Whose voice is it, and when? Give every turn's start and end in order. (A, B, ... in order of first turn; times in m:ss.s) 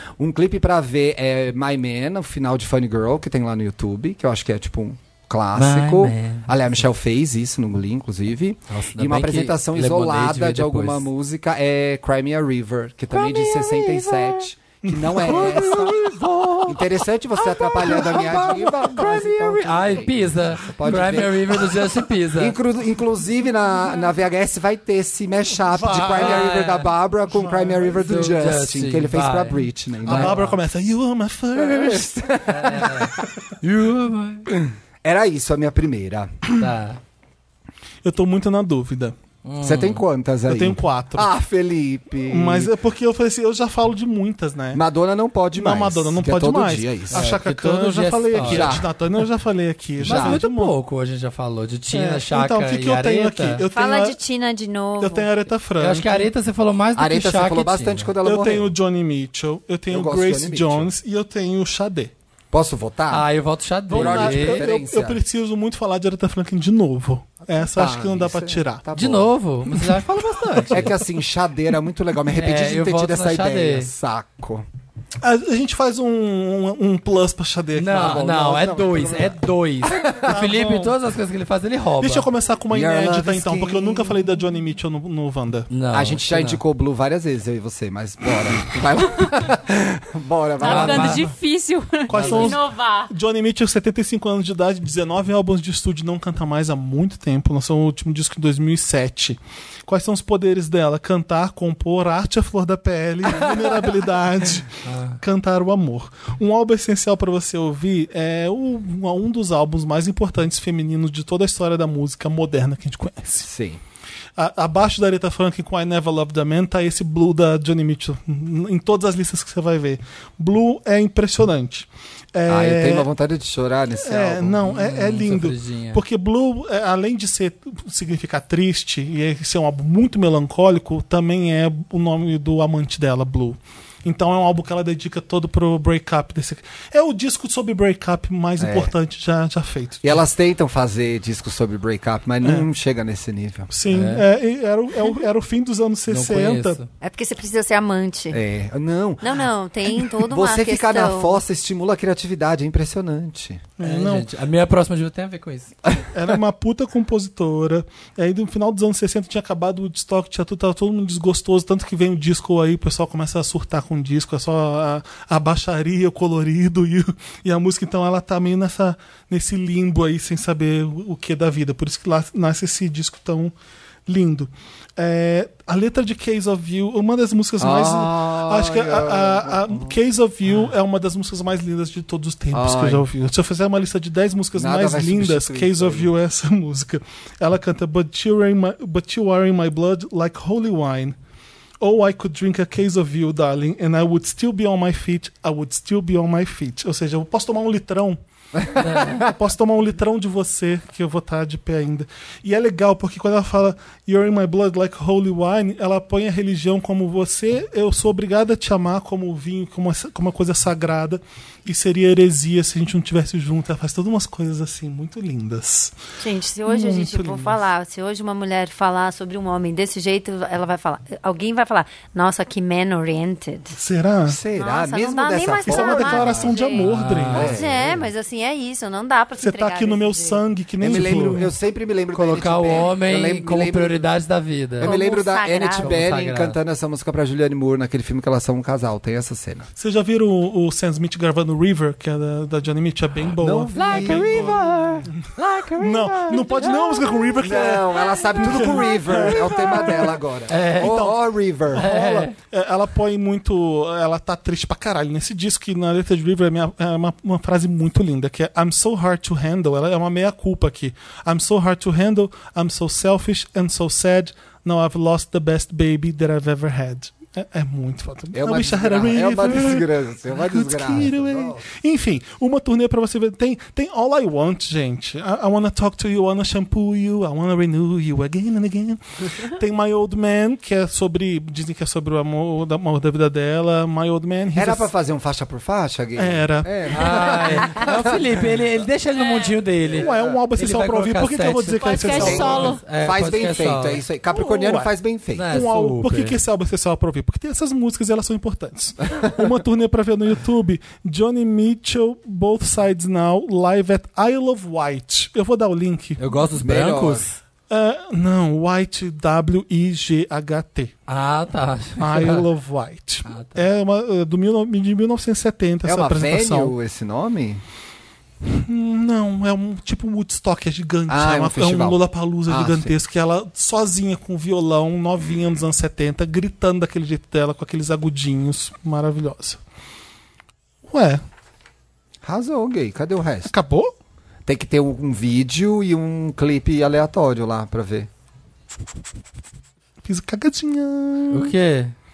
0:00.2-0:16.1 A
0:05.5-0:06.6 B
0:08.7-0:11.1 B
0:13.1-0:14.5 B
0:14.8-0:15.9 C
0:15.0-0:22.6 B
0:16.6-0:21.8 A
0:17.8-0:18.5 C
0:22.3-0:30.4 A
0:25.6-0:26.5 C
0:25.9-0:26.9 B
0:27.3-0:28.0 C
0:27.9-0:30.6 B
0:30.0-0:32.0 C
0:31.6-0:33.3 A
0:32.5-0:34.5 B
0:34.6-0:36.4 A
0:36.5-0:37.0 B
0:38.0-0:39.1 C
0:39.4-0:40.0 B
0:39.6-0:42.7 A
0:40.5-0:41.3 C
0:42.3-0:44.8 C
0:44.7-0:47.3 A
0:45.5-0:50.7 C
0:47.1-0:48.8 B
0:48.4-0:48.9 A
0:50.0-0:50.4 A
0:50.0-0:53.6 B
0:51.9-0:54.2 C
0:53.6-0:55.3 D
0:55.0-0:56.3 C
0:55.8-0:58.1 B
0:57.0-0:58.7 A
0:58.2-1:02.1 C
0:59.9-1:00.9 A
1:02.5-1:03.3 A
1:03.1-1:04.6 B
1:03.9-1:08.8 C
1:03.9-1:05.2 A
1:07.7-1:09.3 A
1:08.9-1:10.9 B
1:10.5-1:10.8 C
1:10.7-1:14.6 A
1:12.3-1:13.9 B
1:15.2-1:18.2 C
1:17.7-1:22.3 B
1:17.8-1:20.3 A
1:20.2-1:20.9 C
1:22.0-1:25.7 C
1:22.7-1:24.2 A
1:25.7-1:26.6 B
1:25.9-1:31.2 A
1:30.6-1:33.1 E
1:30.6-1:31.2 B
1:32.1-1:53.4 C
1:44.8-1:45.2 B
1:53.4-1:53.8 A
1:54.4-2:03.1 C
2:02.5-2:04.6 A
2:04.0-2:20.1 C
2:04.6-2:06.0 B
2:18.6-2:18.9 A
2:20.0-2:23.7 A
2:23.7-2:26.8 C
2:23.9-2:24.2 B
2:26.1-2:26.9 B
2:27.0-2:28.4 D
2:28.3-2:33.7 A
2:29.2-2:31.4 D
2:33.8-2:34.3 C
2:33.8-2:35.7 B
2:36.1-2:53.5 C
2:54.0-3:11.2 C
2:57.6-3:00.0 A
3:02.5-3:03.0 A
3:04.5-3:06.1 A
3:11.8-3:35.9 C
3:18.8-3:19.3 B
3:36.2-3:43.8 D
3:36.6-3:37.6 C
3:43.7-3:44.4 C
3:44.3-3:46.6 A
3:44.5-3:50.4 D
3:45.6-3:47.6 C
3:46.7-3:47.6 B
3:47.3-3:48.1 A
3:49.4-3:51.5 C
3:50.8-3:54.0 A
3:52.1-3:55.0 B
3:54.8-3:56.0 D
3:54.8-3:59.7 A
3:55.8-3:56.6 B
3:59.8-4:10.2 C
4:03.4-4:06.7 A
4:03.8-4:04.5 B
4:07.4-4:11.9 A
4:10.5-4:11.1 B
4:10.8-4:11.1 C
4:11.7-4:44.9 C
4:11.7-4:12.3 B
4:28.3-4:31.6 A
4:44.5-4:48.4 A
4:46.2-4:46.7 C
4:46.9-4:54.0 B
4:49.9-4:52.8 C
4:50.0-4:50.4 A
4:51.8-4:52.8 E
4:52.1-4:55.4 A
4:54.3-4:54.9 C
4:55.3-4:56.4 B
4:55.4-5:06.2 C
5:06.2-5:07.4 B
5:06.6-5:07.3 A
5:07.7-5:10.9 C
5:11.1-5:12.5 B
5:12.0-5:16.7 C
5:13.2-5:13.6 B
5:15.8-5:17.6 A
5:18.4-5:29.6 C
5:21.1-5:22.9 A
5:30.8-5:31.2 C
5:32.2-5:33.5 A
5:33.4-5:33.9 C
5:34.4-5:38.1 A
5:40.0-5:41.5 C
5:41.3-5:41.9 B